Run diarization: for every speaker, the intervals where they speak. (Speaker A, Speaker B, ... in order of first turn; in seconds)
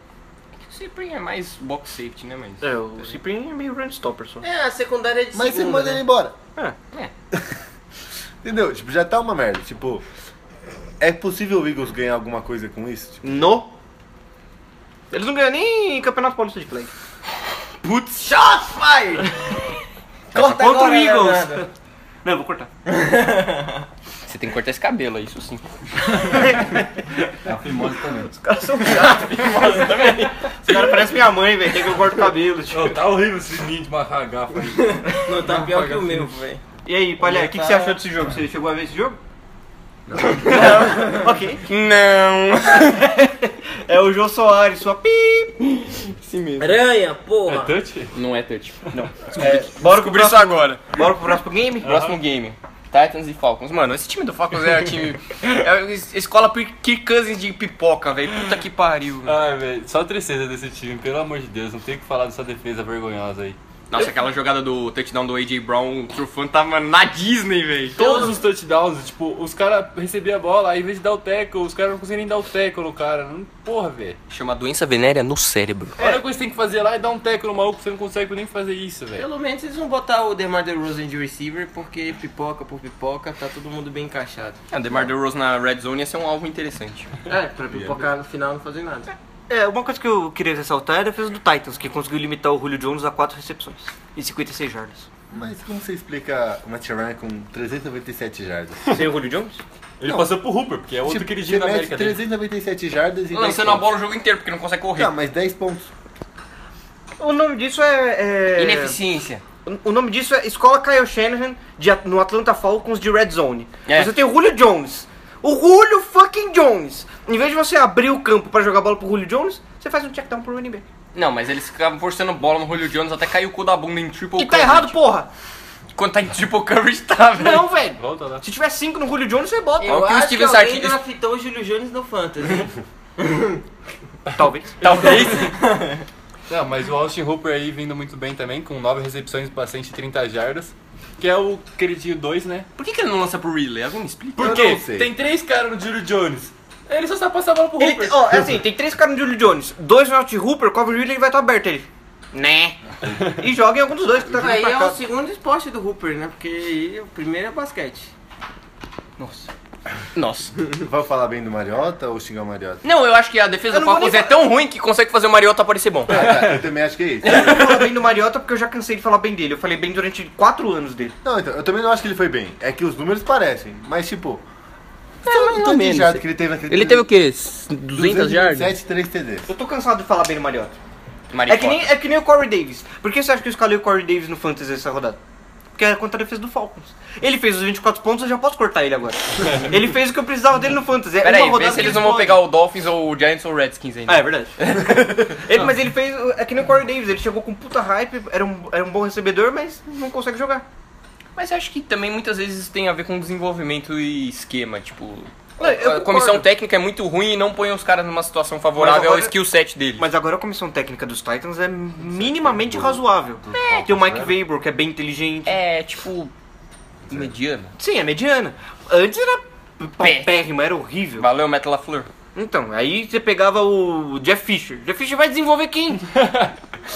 Speaker A: 0.7-3.1, 24.3-25.6, 29.6-29.8, 41.6-43.2, 46.0-46.8, 48.1-50.8, 51.8-59.4, 63.9-68.2, 74.3-76.0, 84.7-87.1, 103.3-105.1, 108.6-109.4, 113.9-114.1, 121.1-125.0, 126.0-127.7, 129.9-131.0, 134.8-135.6, 142.8-144.6, 160.2-160.5, 162.8-166.4, 167.2-167.6, 175.2-178.7, 181.3-181.9, 191.2-194.8, 201.4-210.1, 215.5-216.3, 217.1-217.7, 220.0-220.3, 221.2-222.1
Speaker B: 2.6-4.4, 13.2-13.7, 15.1-16.9, 20.3-21.7, 22.2-22.7, 26.3-26.8, 28.3-33.0, 36.9-39.2, 40.2-41.6, 43.8-45.6, 48.9-51.9, 89.5-95.1, 98.9-99.6, 107.2-109.0, 109.7-120.8, 124.4-125.3, 127.4-129.9, 134.3-134.8, 147.8-155.0, 163.7-164.3, 167.3-171.2, 179.5-180.8, 181.5-185.2, 185.8-192.4, 194.1-200.7, 205.6-206.4, 208.8-209.3, 210.0-215.6, 217.8-221.3, 222.3-226.1
Speaker C: 4.4-6.0, 17.8-19.6, 20.3-21.7, 22.9-23.8, 35.0-36.6, 37.2-38.0, 46.6-47.8, 68.0-68.3, 79.2-84.6, 87.3-89.1, 129.8-132.7, 154.3-158.1
Speaker D: 5.3-6.4, 8.4-10.0, 11.0-13.4, 27.6-28.2, 87.7-88.0, 95.3-99.0, 100.0-100.3, 101.0-103.9, 105.0-105.9, 144.4-145.1, 160.6-162.8, 166.1-167.6, 171.2-174.4, 175.2-177.1, 177.9-179.5, 212.1-214.3
Speaker E: 27.5-28.3, 29.6-29.9, 30.6-31.2, 32.7-36.1, 40.1-40.4, 47.5-48.2, 51.8-52.2, 59.2-63.6, 68.0-74.2, 76.0-79.3, 100.0-102.2, 128.0-128.4, 134.8-135.6, 136.5-142.7, 144.4-148.5, 166.2-166.6, 226.1-226.6